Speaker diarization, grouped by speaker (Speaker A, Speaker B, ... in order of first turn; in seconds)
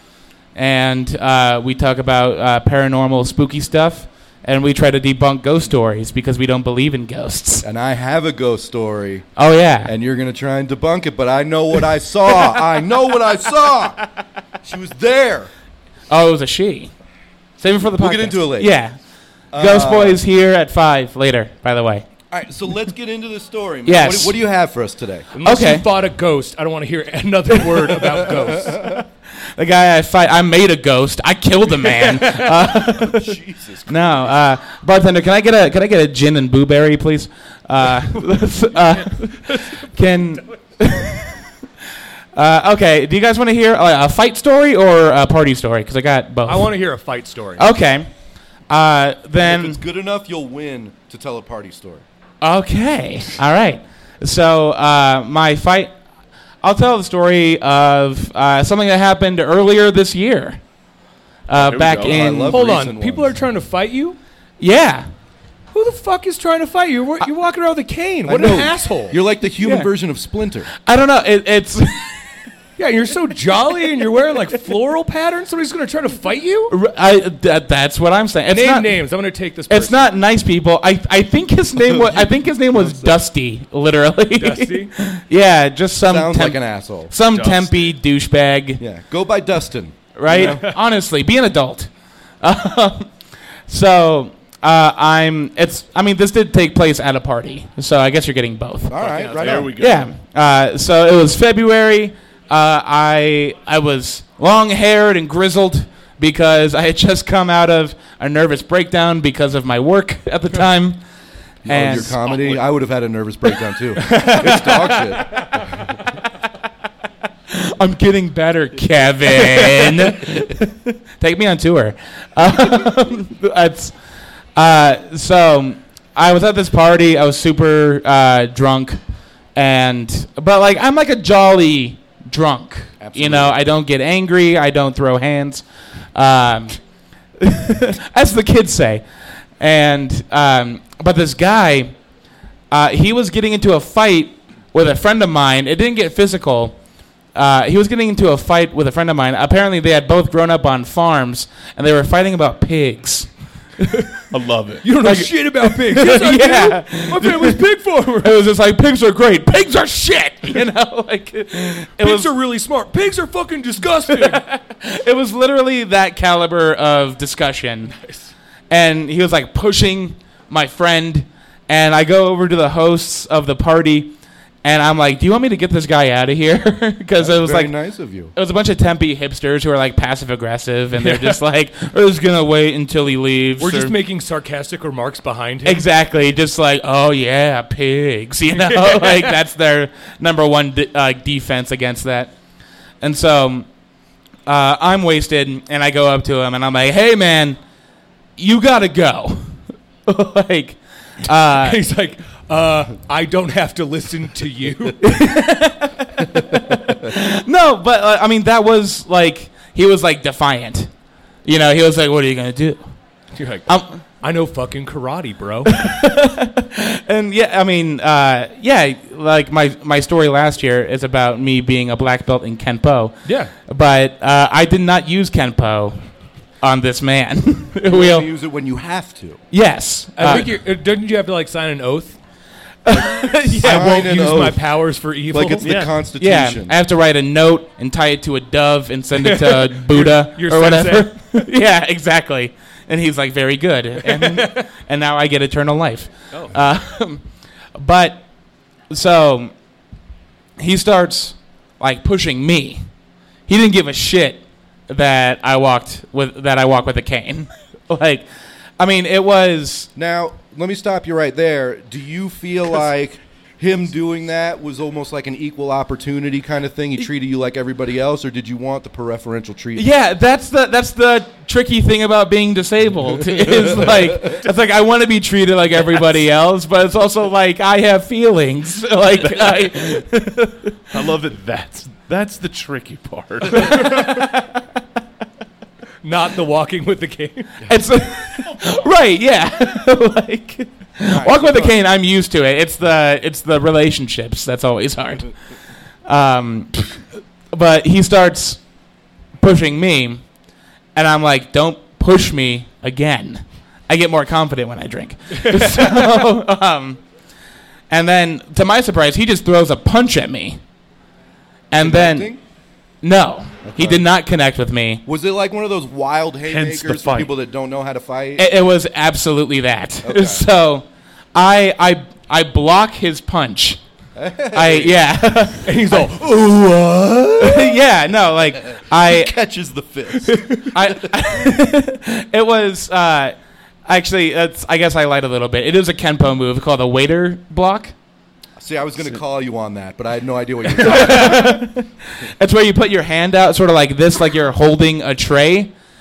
Speaker A: 0.6-7.7, 9.4-9.9, 16.1-16.9, 17.6-18.9, 19.6-22.1, 23.9-24.4, 25.4-25.9, 29.6-33.4, 33.9-41.4, 42.4-46.8, 47.6-48.1, 48.7-49.8, 52.4-55.9, 56.6-60.6, 61.5-62.6, 64.6-65.1, 69.6-69.9, 70.8-72.3, 76.7-79.0, 79.7-88.8, 90.2-91.9, 92.4-93.1, 93.7-99.0, 99.8-111.0, 111.7-112.5, 117.5-123.9, 124.6-129.0, 129.6-136.8, 137.4-139.0, 139.6-141.9, 142.7-146.8, 147.3-153.3, 155.0-157.6, 158.2-162.3, 164.1-168.0, 168.7-177.8, 178.3-183.9, 185.6-192.3, 193.0-193.7, 194.5-197.6, 198.4-201.8, 205.0-210.9, 211.4-212.9, 213.7-214.0, 215.7-226.0, 226.6-228.3, 229.5-230.5, 232.9-234.0, 236.2-247.2, 247.8-248.2, 248.9-249.5, 250.6-252.8, 253.5-258.3, 258.8-259.9, 269.8-280.8, 283.6-284.6, 287.7-295.3, 296.1-296.9, 297.5-298.6, 299.4-300.2, 300.9-307.0, 307.9-310.6, 311.7-312.3, 313.0-315.0, 318.4-323.8, 324.5-326.1, 327.4-329.3, 330.7-333.4, 333.9-337.9, 340.8-345.7
Speaker B: 7.6-9.3, 9.8-14.0, 14.6-15.5, 17.9-18.7, 19.5-20.2, 22.3-25.3, 28.4-28.9, 33.0-34.4, 49.4-52.0, 61.9-63.4, 68.3-70.7, 81.8-83.2, 86.1-87.1, 88.8-90.6, 98.9-99.7, 111.7-115.5, 133.0-133.6, 177.2-178.3, 227.8-229.4, 233.6-234.6, 235.3-236.8, 260.0-269.9, 291.1-291.8, 311.7-312.4, 313.6-314.0, 315.1-318.5, 320.0-320.4, 324.1-325.0, 326.2-327.7, 328.8-331.3, 338.6-341.6
Speaker C: 25.3-28.9, 31.7-32.6, 38.9-39.9, 46.5-47.7, 62.5-64.2, 65.7-69.2, 72.8-76.7, 78.5-80.1, 84.4-84.9, 90.3-90.7, 99.1-99.7, 114.0-114.8, 115.3-115.7, 154.8-158.3, 161.6-164.4, 181.0-181.4, 183.6-185.9, 188.5-189.4, 201.6-205.1, 213.3-215.7, 223.2-223.5, 230.2-232.2, 233.3-235.7, 239.2-241.1, 244.0-244.7, 286.0-287.5, 305.4-306.1, 325.7-326.4, 330.3-330.6
Speaker D: 61.5-62.2, 87.3-88.0, 99.1-100.1, 154.3-154.8, 235.6-235.9, 279.2-279.7, 280.9-283.9, 316.5-317.3